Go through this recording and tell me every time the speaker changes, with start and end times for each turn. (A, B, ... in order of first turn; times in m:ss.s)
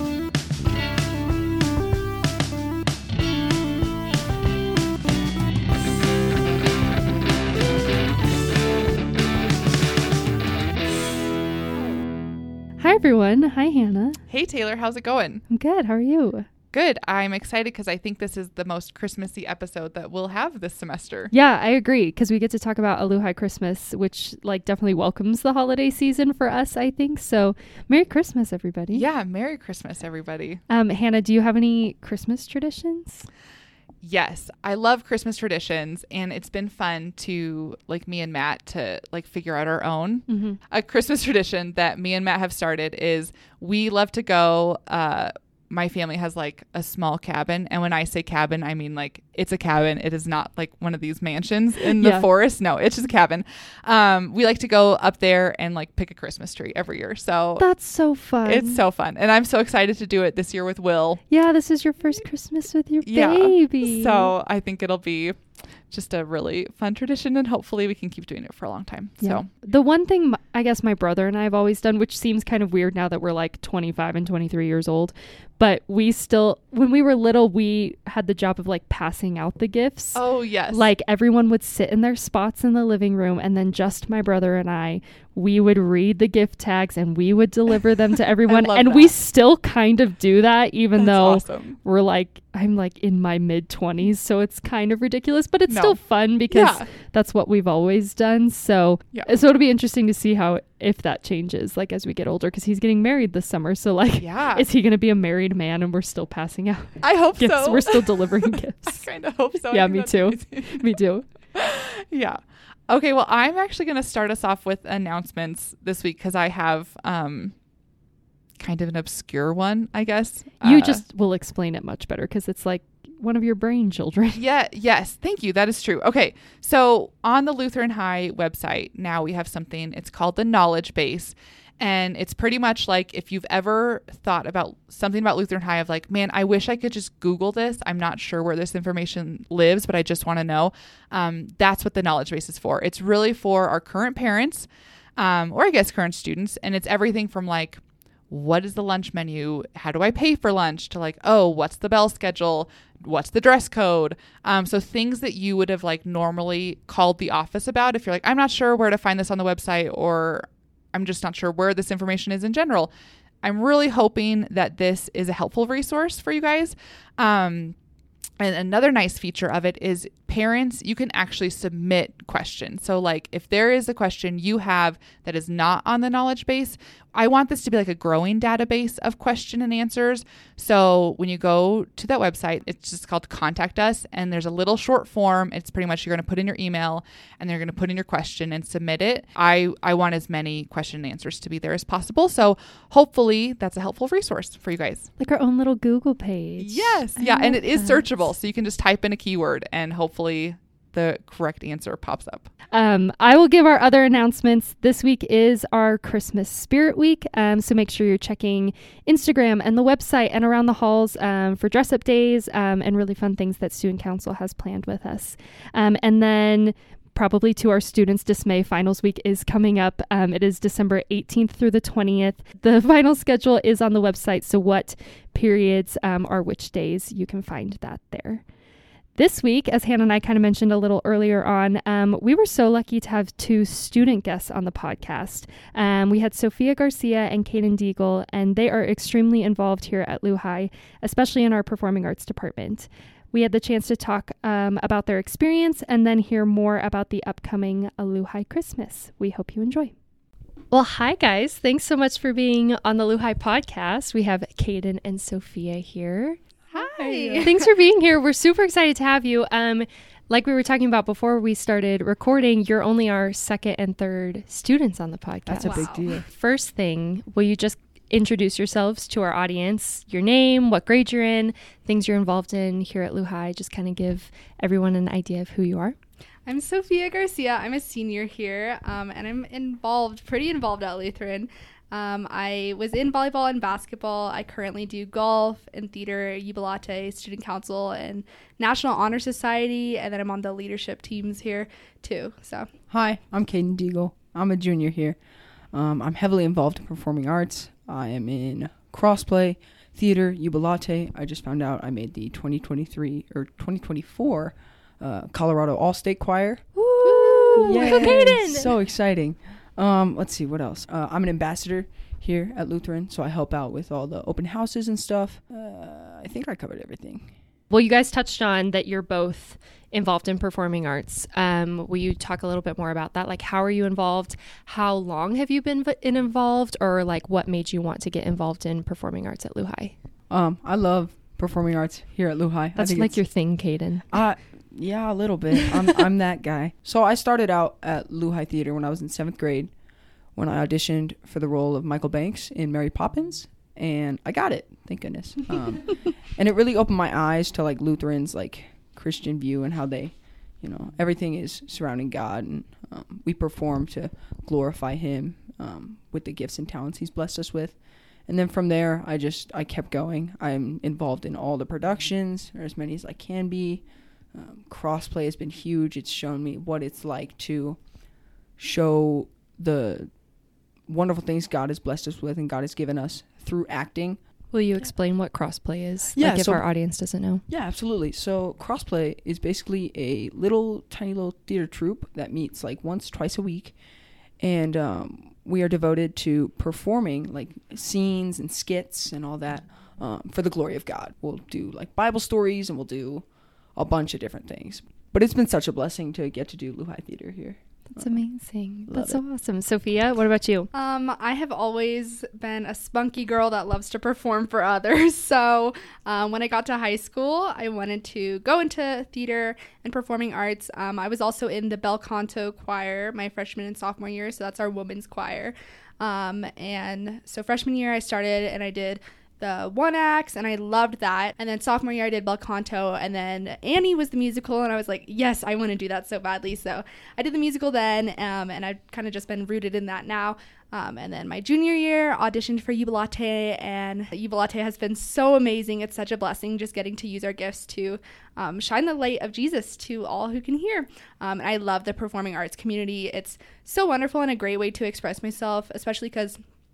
0:12.8-0:14.2 A
0:14.3-0:15.4 B
0:15.5-0:16.5 A
0:16.7-0:21.3 B
0:21.3-0:29.0 A
0:28.9-0:30.6 B
0:30.7-0:33.3 A
0:34.0-0:57.7 B
0:40.3-0:40.6 A
0:52.0-0:52.2 A
0:57.6-0:58.8 A
0:58.4-1:01.2 B
1:01.3-1:04.3 A
1:03.0-1:09.5 B
1:09.2-1:49.1 A
1:20.1-1:20.9 B
1:28.4-1:29.1 B
1:31.0-1:31.8 B
1:35.7-1:36.9 B
1:44.1-1:44.7 B
1:47.0-1:51.0 B
1:49.7-1:51.3 A
1:51.5-1:57.5 B
1:58.6-2:01.0 B
2:00.6-2:04.4 A
2:04.3-2:42.9 B
2:43.4-2:47.8 B
2:48.4-3:15.1 B
3:15.2-3:18.3 A
3:16.6-3:22.5 B
3:22.7-3:48.4 A
3:49.2-4:09.9 A
4:10.7-4:16.4 A
4:16.7-4:17.7 C
4:17.1-4:17.4 D
4:17.4-4:36.0 A
4:25.5-4:26.3 D
4:25.6-4:26.0 C
4:36.4-4:52.7 C
4:52.9-4:55.2 D
4:55.7-5:06.6 D
5:06.8-5:08.7 A
5:07.3-5:08.3 C
5:07.6-5:17.3 D
5:17.7-5:29.9 A
5:30.3-5:33.2 D
5:32.8-5:34.0 A
5:34.1-5:39.7 D
5:40.3-6:07.8 D
6:08.6-6:10.1 D
6:10.9-6:14.2 D
6:14.5-6:17.4 A
6:16.2-6:16.6 D
6:17.5-6:23.7 D
6:24.4-6:38.2 D
6:37.9-6:40.7 A
6:38.9-6:39.2 D
6:40.7-7:26.4 C